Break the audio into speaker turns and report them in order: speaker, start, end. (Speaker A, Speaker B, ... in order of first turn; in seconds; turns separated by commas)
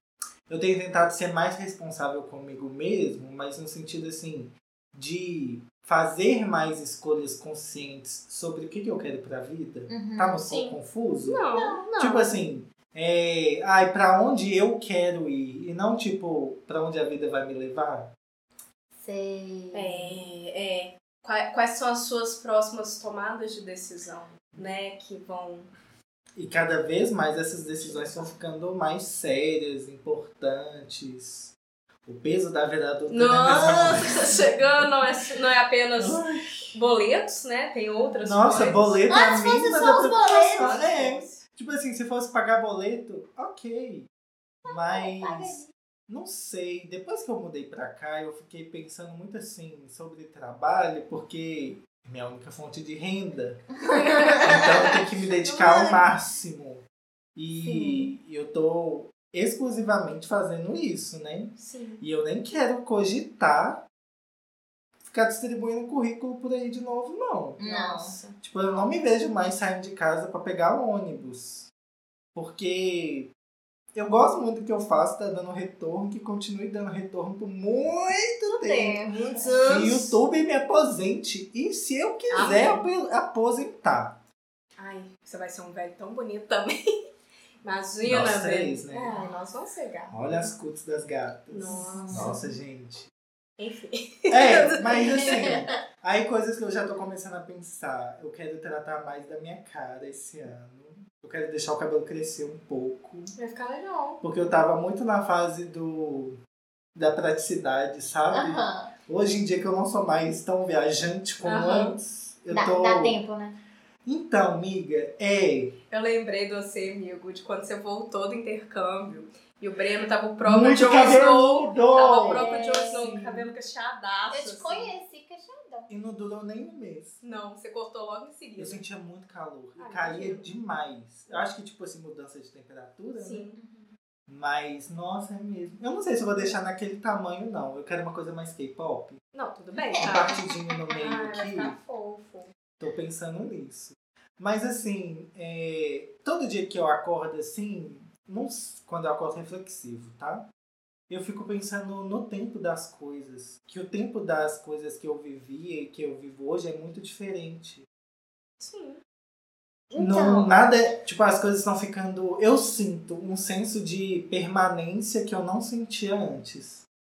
Speaker A: 0.5-11.4, Speaker B: 9.9-10.5, Speaker C: 10.5-12.3, Speaker B: 11.5-11.8, Speaker A: 12.0-18.1, Speaker B: 18.9-20.2, Speaker C: 19.7-25.7, Speaker A: 26.4-31.5, Speaker A: 32.0-35.1, Speaker C: 33.1-36.2, Speaker A: 36.0-36.7, Speaker C: 36.7-39.0, Speaker A: 38.2-44.1, Speaker B: 39.1-40.8, Speaker C: 40.3-41.4, Speaker B: 44.6-45.7, Speaker A: 44.6-56.8, Speaker B: 53.8-55.0, Speaker C: 55.4-56.0, Speaker A: 57.4-63.8, Speaker B: 57.6-58.1, Speaker C: 61.6-62.0, Speaker A: 65.1-67.6, Speaker B: 67.6-68.2, Speaker C: 67.6-68.4, Speaker A: 68.4-71.7, Speaker A: 72.3-73.3, Speaker A: 73.9-79.1, Speaker B: 78.5-79.8, Speaker C: 79.1-80.2, Speaker A: 79.6-84.2, Speaker B: 82.3-82.8, Speaker C: 82.3-82.8, Speaker C: 84.8-86.8, Speaker C: 87.6-90.2, Speaker A: 88.0-89.2, Speaker B: 89.1-89.4, Speaker A: 90.1-93.1, Speaker C: 91.5-92.4, Speaker B: 91.7-92.5, Speaker C: 93.6-95.6, Speaker A: 94.3-103.3, Speaker C: 103.4-104.2, Speaker A: 104.2-106.4, Speaker A: 106.9-113.2, Speaker B: 108.3-108.9, Speaker C: 111.4-112.0, Speaker B: 112.5-113.5, Speaker A: 114.0-115.7, Speaker C: 115.9-124.9, Speaker A: 120.4-123.5, Speaker B: 122.2-123.1, Speaker B: 124.3-125.9, Speaker A: 125.9-127.2, Speaker C: 127.2-128.8, Speaker A: 128.6-133.5, Speaker C: 129.8-130.5, Speaker C: 133.1-133.6, Speaker B: 133.6-133.9, Speaker A: 134.3-139.2, Speaker C: 139.3-140.4, Speaker B: 139.9-140.4, Speaker A: 140.0-141.8, Speaker C: 140.9-142.5, Speaker A: 142.8-150.5, Speaker A: 151.1-157.8, Speaker C: 158.6-159.0, Speaker B: 159.9-160.6, Speaker A: 160.0-166.8